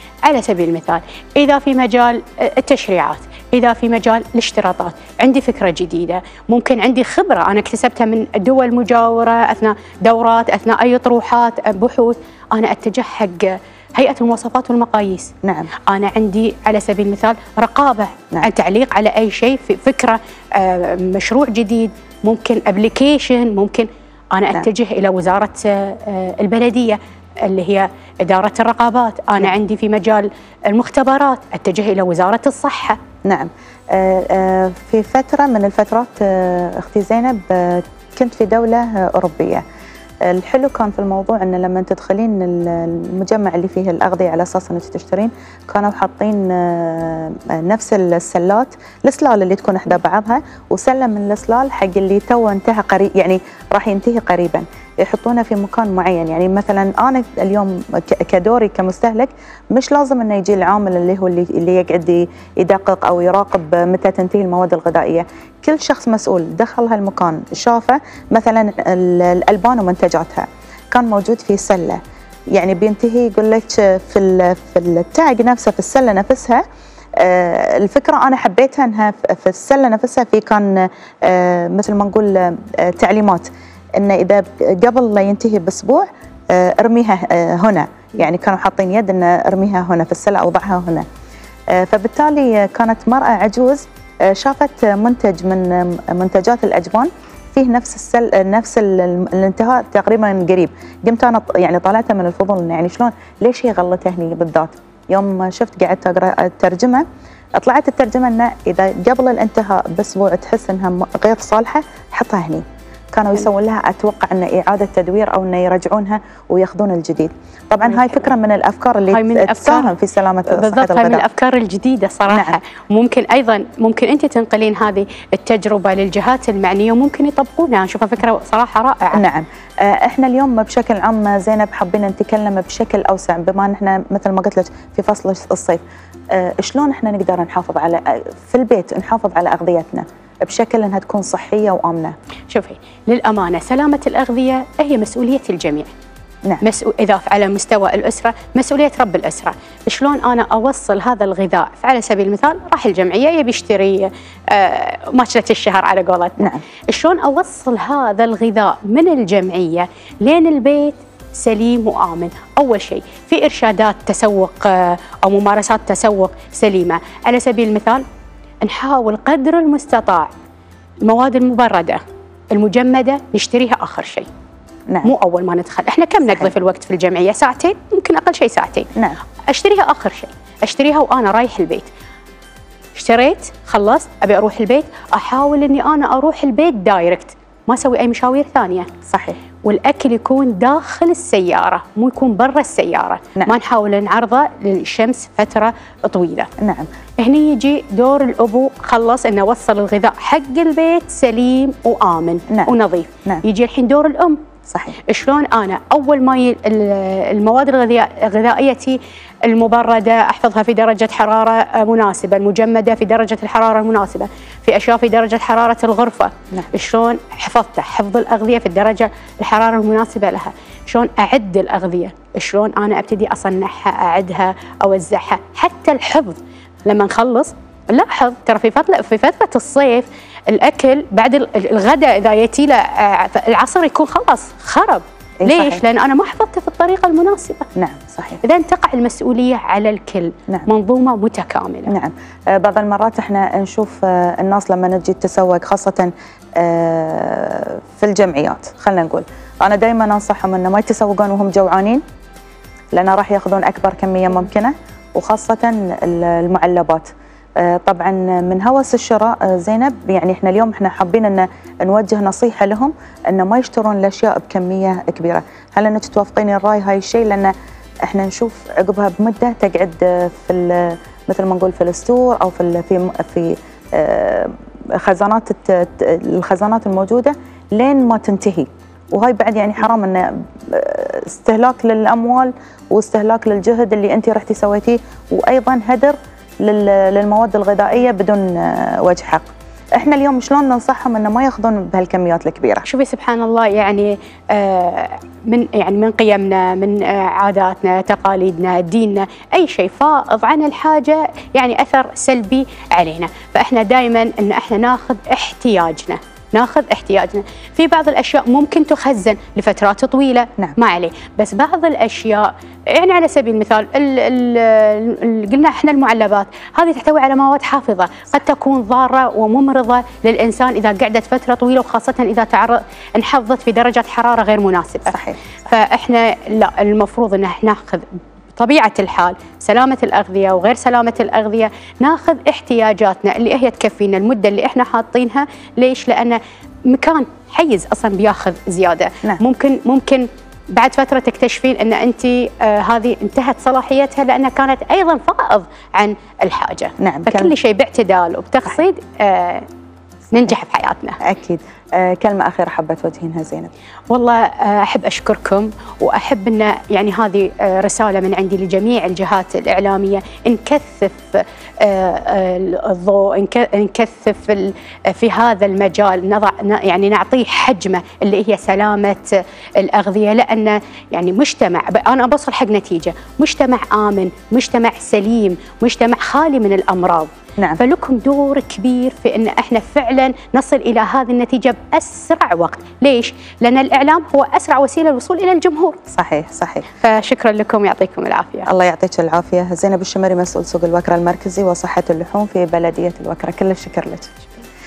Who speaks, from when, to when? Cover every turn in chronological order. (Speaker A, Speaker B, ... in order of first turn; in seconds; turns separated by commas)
Speaker A: 0.3-15.3, Speaker B: 15.4-15.7, Speaker A: 15.9-33.0, Speaker B: 33.2-39.6, Speaker B: 40.2-72.0, Speaker B: 72.5-76.6, Speaker B: 77.2-91.1, Speaker B: 91.7-107.0, Speaker B: 107.6-121.2, Speaker A: 117.9-118.3, Speaker A: 119.1-119.9, Speaker A: 120.5-129.2, Speaker B: 122.3-122.6, Speaker B: 129.2-142.2, Speaker A: 142.5-145.9, Speaker A: 146.6-168.0, Speaker A: 168.6-170.3, Speaker A: 171.1-172.0, Speaker A: 172.5-174.3, Speaker A: 175.0-178.9, Speaker A: 179.5-181.9, Speaker A: 183.0-188.9, Speaker B: 189.1-189.4, Speaker A: 189.6-196.5, Speaker B: 196.6-196.9, Speaker A: 197.2-204.4, Speaker B: 204.7-205.0, Speaker A: 205.1-237.7, Speaker B: 235.4-235.8, Speaker B: 237.8-238.4, Speaker A: 238.4-241.9, Speaker B: 241.9-252.0, Speaker B: 252.9-267.5, Speaker B: 268.1-292.9, Speaker A: 292.9-349.7, Speaker B: 325.1-325.4, Speaker B: 347.0-347.5, Speaker A: 350.3-351.2, Speaker B: 351.2-353.7, Speaker A: 354.1-369.2, Speaker A: 369.8-386.0, Speaker B: 386.1-386.9, Speaker A: 387.0-388.7, Speaker B: 388.7-394.4